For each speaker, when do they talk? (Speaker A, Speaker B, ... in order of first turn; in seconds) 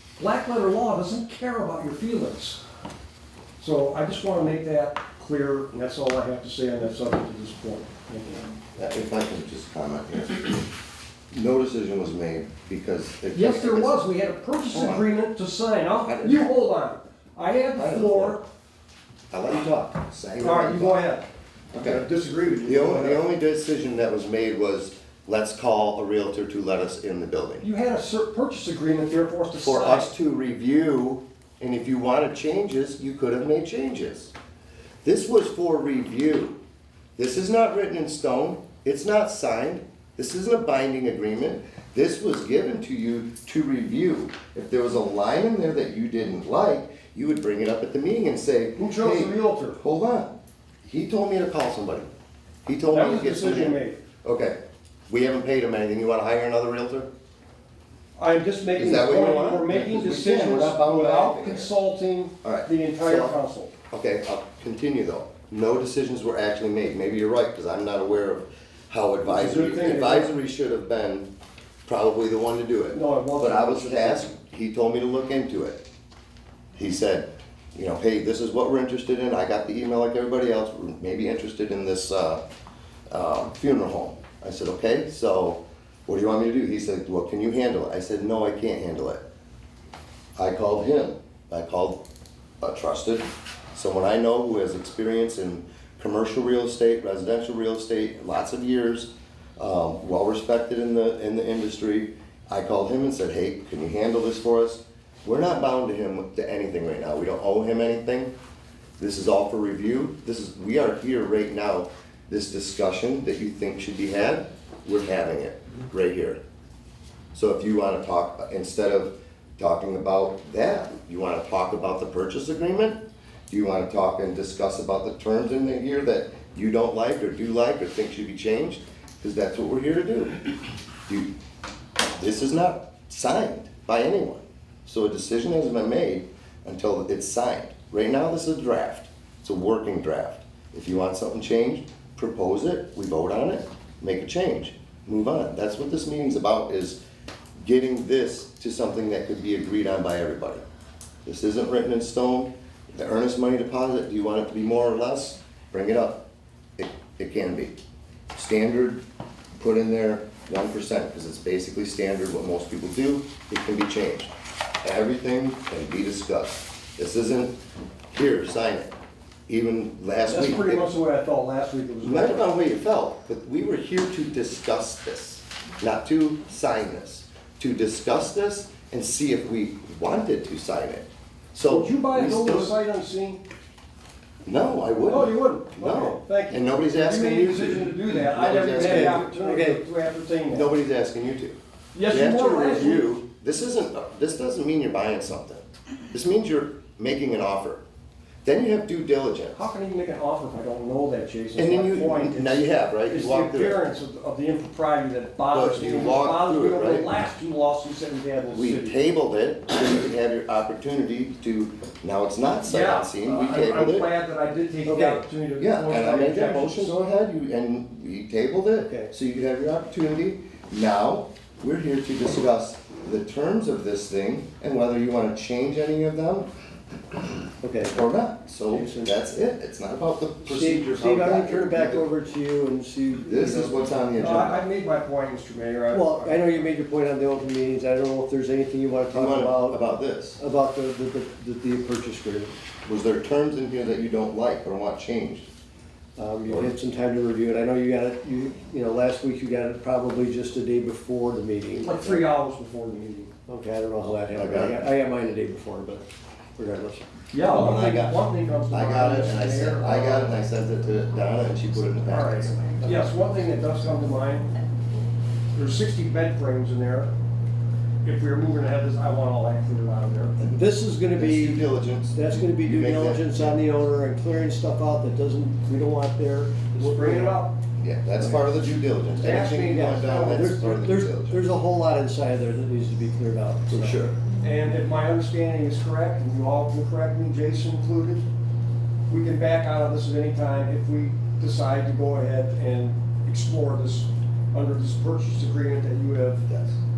Speaker A: 0.2-2.6, 3.6-8.5, 13.3-18.4, 20.4-21.3, 21.8-23.2, 27.6-30.1, 48.8-49.8, 52.9-54.0, 58.2-63.7, 69.3-70.3, 72.9-74.3, 170.3-172.5, 181.7-183.4, 185.1-190.8, 191.9-193.1, 199.5-209.0, 212.7-217.0, 234.2-236.7, 251.8-253.3, 257.3-260.4, 262.1-264.5, 265.5-267.1, 268.0-270.4, 276.8-277.5, 279.2-280.4, 284.4-288.2, 289.1-296.4
Speaker B: 8.8-10.7, 11.3-14.1, 14.7-15.1, 16.0-16.5, 17.8-18.4, 19.3-21.1, 21.7-22.1, 22.7-27.7, 29.6-34.3, 35.0-36.6, 37.2-50.3, 50.8-52.1, 52.6-54.6, 55.1-57.1, 58.8-61.7, 62.4-63.4, 63.9-71.3, 71.8-75.8, 76.8-82.4, 83.1-89.2, 90.4-92.0, 92.6-108.3, 109.0-116.4, 117.3-130.4, 132.1-147.0, 147.6-150.6, 151.2-156.2, 156.8-157.8, 158.3-159.0, 159.6-164.3, 164.8-167.6, 168.1-168.9, 169.5-170.9, 172.0-182.8, 184.5-189.2, 190.5-191.6, 192.1-197.8, 198.4-199.6, 201.6-203.8, 205.5-207.1, 208.5-214.1, 215.6-226.5, 227.9-232.1, 233.2-234.6, 239.1-240.4, 242.8-245.5, 254.3-254.9, 257.4-258.2, 258.7-262.9, 271.1-273.6, 277.8-281.4, 283.7-284.1, 296.5-296.8
Speaker C: 188.7-189.8, 214.8-215.2, 218.8-219.1, 227.6-228.0, 228.7-229.1, 230.4-233.8, 235.9-239.8, 240.4-242.5, 246.2-252.2, 253.5-257.1, 270.5-277.4, 279.3-284.1